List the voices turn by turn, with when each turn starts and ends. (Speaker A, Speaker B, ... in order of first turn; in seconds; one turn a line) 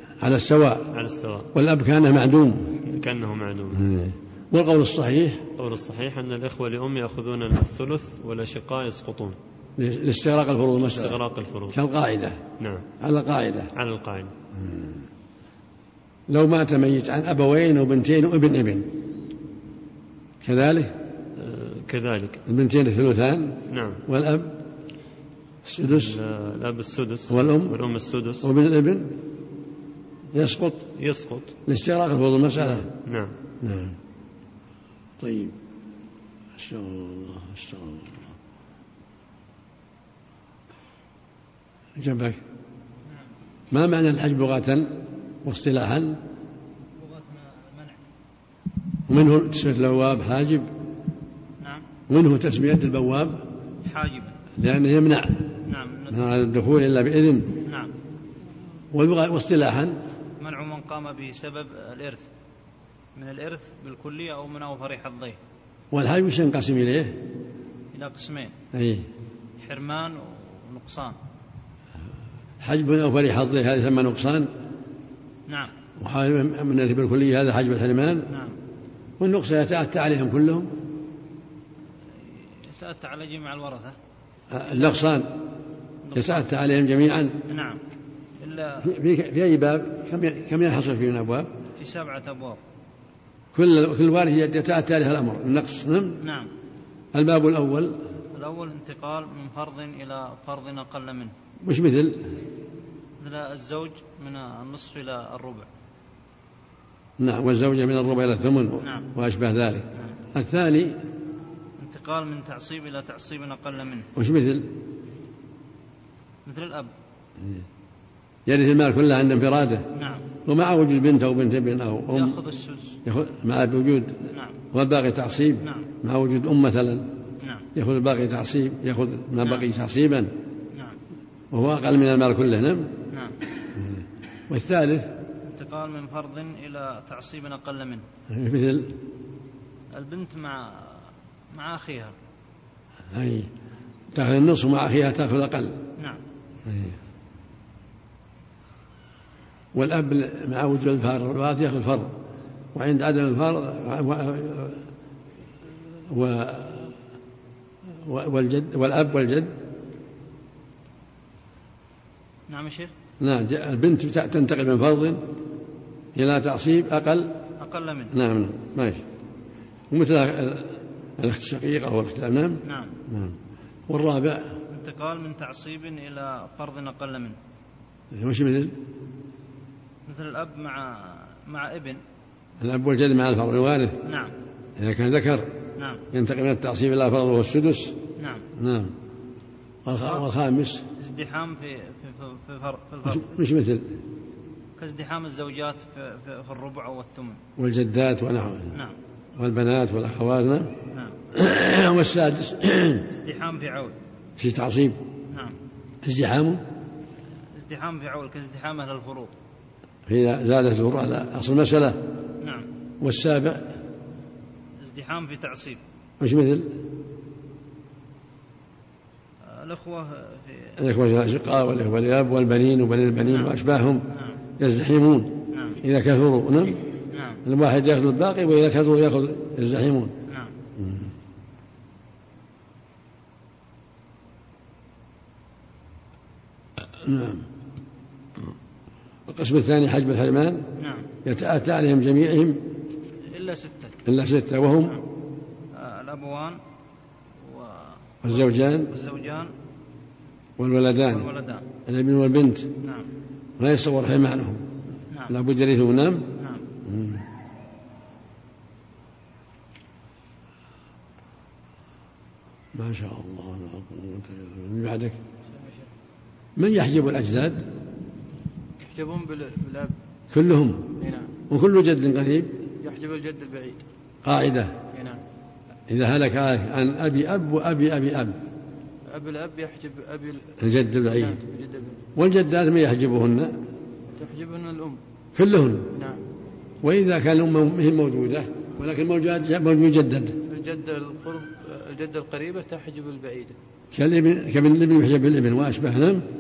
Speaker A: 0.2-0.9
Speaker B: 0.9-1.5
Speaker A: 1.6-2.8
Speaker B: 2.9-3.9
Speaker A: 3.7-5.5
Speaker B: 5.6-9.4
Speaker A: 9.8-11.2
Speaker B: 10.8-11.8
Speaker A: 11.7-12.4
Speaker B: 12.6-12.9
Speaker A: 13.0-13.7
Speaker B: 13.8-14.3
Speaker A: 14.6-15.1
Speaker A: 16.3-18.9
Speaker A: 20.4-21.0
Speaker B: 21.4-22.4
Speaker A: 22.5-24.6
Speaker B: 23.7-24.0
Speaker A: 25.6-26.2
Speaker B: 25.8-28.5
Speaker A: 27.3-27.8
Speaker A: 28.4-29.2
Speaker A: 30.3-30.9
Speaker B: 31.0-31.6
Speaker A: 31.7-32.9
Speaker B: 32.8-33.3
Speaker A: 33.6-34.0
Speaker A: 35.2-35.6
Speaker A: 36.6-38.3
Speaker A: 42.0-42.4
Speaker A: 43.7-46.2
Speaker C: 47.0-48.0
Speaker A: 49.1-50.7
Speaker C: 51.6-51.9
Speaker A: 52.1-53.5
Speaker C: 53.8-54.4
Speaker A: 54.6-55.5
Speaker C: 55.6-56.2
Speaker A: 56.1-57.6
Speaker C: 57.6-57.9
Speaker A: 58.9-60.0
Speaker C: 60.4-62.3
Speaker C: 63.1-65.4
Speaker A: 65.9-67.2
Speaker C: 67.9-68.5
Speaker A: 68.7-69.1
Speaker C: 69.6-71.2
Speaker A: 72.6-74.5
Speaker C: 75.5-75.7
Speaker A: 76.0-78.3
Speaker C: 78.3-78.6
Speaker A: 79.2-80.8
Speaker C: 82.2-84.0
Speaker A: 84.5-85.4
Speaker C: 86.1-86.5
Speaker A: 86.2-87.4
Speaker C: 87.5-87.8
Speaker C: 88.4-88.9
Speaker A: 88.8-91.5
Speaker C: 91.8-92.6
Speaker A: 93.5-96.2
Speaker C: 96.2-96.5
Speaker A: 97.1-98.0
Speaker C: 98.4-101.3
Speaker A: 101.6-102.3
Speaker C: 103.2-105.7
Speaker A: 107.2-111.0
Speaker C: 108.8-109.1
Speaker C: 111.8-114.1
Speaker A: 114.2-114.8
Speaker C: 116.5-116.9
Speaker A: 118.5-119.9
Speaker C: 120.0-120.3
Speaker A: 120.5-122.4
Speaker C: 122.1-123.0
Speaker A: 123.0-127.1
Speaker C: 124.3-124.6
Speaker C: 125.6-125.9
Speaker C: 127.4-127.7
Speaker A: 127.8-130.3
Speaker C: 129.4-129.7
Speaker A: 131.5-132.9
Speaker A: 133.8-135.2
Speaker C: 135.5-138.0
Speaker A: 138.3-139.0
Speaker C: 139.9-142.2
Speaker A: 143.1-143.5
Speaker A: 144.1-145.8
Speaker A: 146.7-147.0
Speaker A: 149.7-152.2
Speaker A: 152.7-154.9
Speaker A: 155.9-157.0
Speaker A: 158.0-159.6
Speaker C: 162.5-162.9
Speaker A: 163.2-165.2
Speaker A: 166.2-167.4
Speaker C: 167.6-168.1
Speaker A: 168.1-169.0
Speaker A: 169.9-173.4
Speaker C: 172.6-172.9
Speaker A: 173.9-174.6
Speaker C: 174.7-177.4
Speaker A: 178.1-178.8
Speaker C: 180.1-182.0
Speaker A: 182.6-184.0
Speaker C: 184.0-184.3
Speaker A: 184.8-185.5
Speaker C: 185.8-186.0
Speaker A: 186.1-188.0
Speaker C: 188.2-188.4
Speaker A: 188.6-188.9
Speaker A: 189.8-190.8
Speaker C: 191.0-193.3
Speaker A: 193.1-194.0
Speaker C: 194.8-197.4
Speaker A: 197.6-198.8
Speaker A: 199.4-200.7
Speaker A: 201.3-203.1
Speaker C: 203.1-204.0
Speaker A: 204.4-205.0
Speaker C: 205.3-205.6
Speaker A: 206.0-206.6
Speaker C: 207.5-209.3
Speaker A: 210.1-212.1
Speaker C: 212.4-212.7
Speaker A: 213.0-213.7
Speaker C: 214.8-215.8
Speaker A: 216.2-216.8
Speaker C: 219.4-220.8
Speaker A: 220.8-224.1
Speaker C: 223.2-223.5
Speaker C: 224.1-224.4
Speaker A: 224.6-226.8
Speaker C: 225.5-225.8
Speaker C: 227.1-227.4
Speaker A: 227.4-230.2
Speaker C: 230.3-230.5
Speaker A: 230.8-231.1
Speaker A: 237.0-237.5
Speaker A: 239.3-240.7
Speaker C: 240.8-241.1
Speaker A: 241.2-242.7
Speaker C: 243.3-244.0
Speaker A: 244.1-245.0
Speaker C: 245.7-246.6
Speaker C: 247.4-249.5
Speaker A: 248.2-248.9
Speaker A: 250.6-251.3
Speaker C: 251.1-251.7
Speaker A: 251.9-252.7
Speaker C: 252.8-253.1
Speaker A: 253.6-254.6
Speaker A: 255.3-256.3
Speaker C: 256.4-256.6
Speaker A: 256.9-257.3
Speaker A: 262.7-265.2
Speaker D: 265.5-265.9
Speaker A: 266.6-267.7
Speaker D: 268.8-269.9
Speaker A: 270.3-271.0
Speaker D: 271.0-271.3
Speaker A: 271.5-272.6
Speaker D: 272.8-273.9
Speaker A: 274.2-274.8
Speaker D: 274.9-275.2
Speaker A: 275.9-278.4
Speaker D: 279.1-280.5
Speaker A: 280.6-281.4
Speaker D: 281.1-282.0
Speaker A: 282.2-283.6
Speaker D: 284.2-285.0
Speaker A: 285.4-285.9
Speaker D: 285.9-286.2
Speaker A: 286.8-290.4
Speaker D: 290.5-293.6
Speaker A: 293.9-296.3